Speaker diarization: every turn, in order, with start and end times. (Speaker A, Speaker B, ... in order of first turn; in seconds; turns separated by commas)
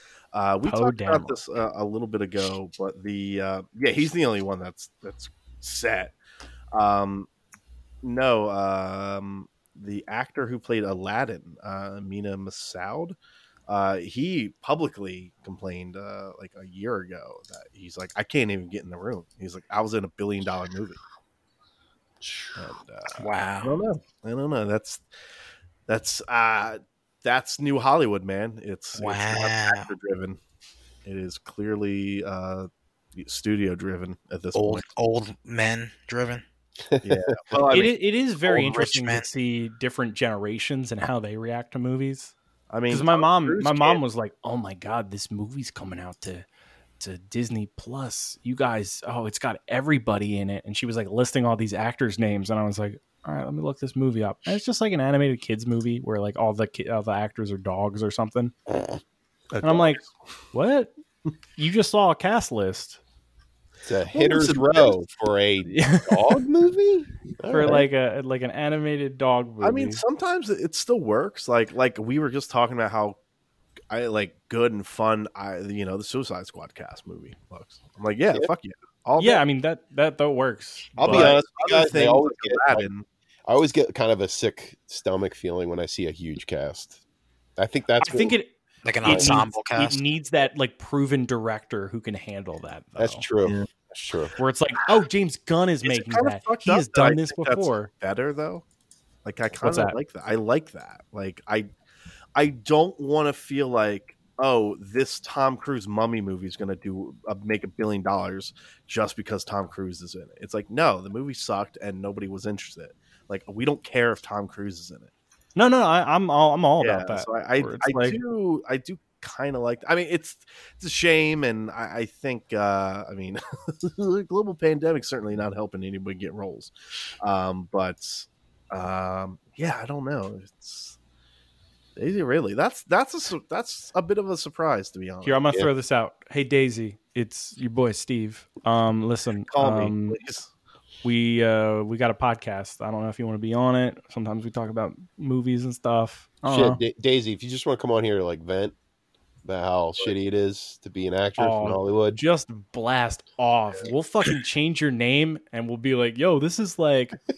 Speaker A: 0.3-6.2, Speaker B: 0.6-1.4, Speaker A: 6.7-7.3, Speaker A: 8.0-13.2, Speaker A: 13.7-21.0, Speaker A: 22.6-25.0, Speaker C: 23.2-23.8, Speaker A: 25.9-30.4, Speaker C: 28.9-29.9, Speaker A: 31.1-34.9, Speaker C: 34.5-36.4, Speaker D: 36.9-37.6, Speaker A: 37.0-37.9, Speaker B: 37.7-42.3, Speaker C: 38.4-39.3, Speaker A: 42.7-44.0, Speaker B: 42.9-46.5, Speaker B: 47.0-58.5, Speaker A: 59.5-60.1, Speaker B: 59.6-60.0, Speaker B: 60.5-60.9, Speaker B: 61.6-63.0, Speaker D: 63.9-67.8, Speaker A: 64.1-65.0, Speaker B: 65.7-66.4, Speaker B: 67.5-70.0, Speaker A: 69.6-73.2, Speaker A: 73.9-79.4, Speaker B: 79.2-81.3, Speaker A: 81.0-83.0, Speaker D: 81.0-82.8, Speaker D: 83.5-87.0, Speaker D: 87.6-88.4, Speaker B: 88.0-88.5, Speaker C: 88.8-90.0, Speaker D: 89.0-89.4, Speaker B: 89.0-93.2, Speaker D: 93.0-94.3, Speaker A: 93.4-93.7, Speaker B: 94.4-97.9, Speaker A: 95.8-98.6, Speaker A: 99.2-101.7, Speaker B: 99.6-100.0, Speaker A: 102.3-115.1, Speaker B: 115.5-118.2, Speaker A: 116.8-131.0, Speaker A: 132.0-135.4, Speaker B: 135.2-140.2, Speaker A: 139.5-140.5, Speaker B: 141.0-146.8, Speaker D: 146.5-148.8, Speaker D: 149.4-152.2, Speaker B: 151.4-157.2